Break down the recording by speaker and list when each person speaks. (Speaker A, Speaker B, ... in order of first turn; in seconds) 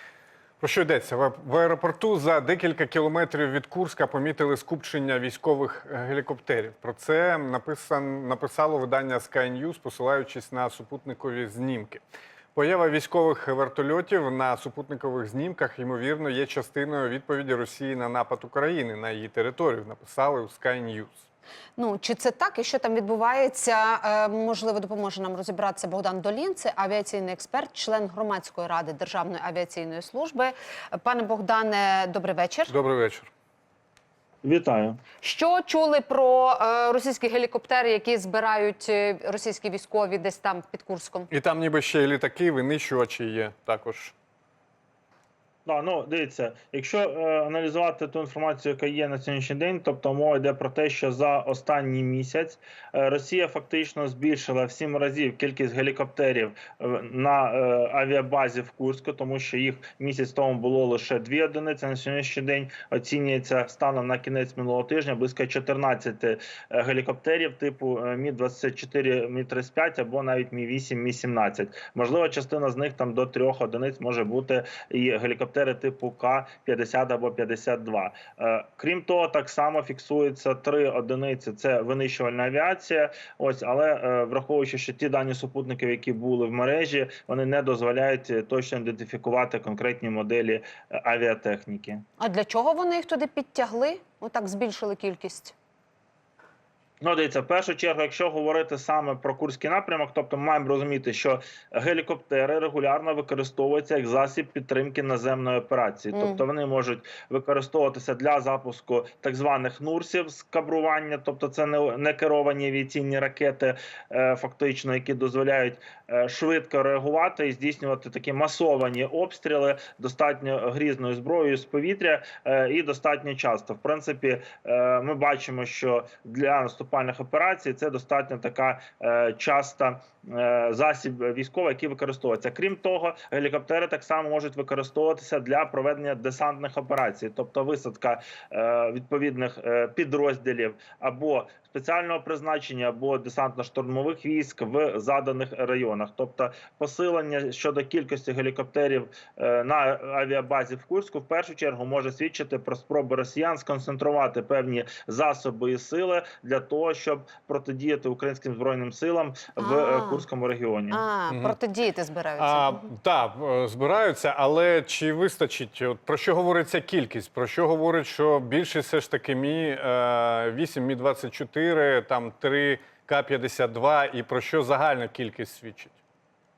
Speaker A: 0.6-12.0, 12.5-21.2, 32.7-33.3, 41.3-44.1, 161.3-161.6, 162.4-175.9
Speaker B: 21.8-32.7, 35.2-41.3, 92.2-95.5, 106.1-106.4, 159.6-160.2, 160.9-162.8
Speaker C: 34.4-35.0, 45.6-92.0, 97.0-161.0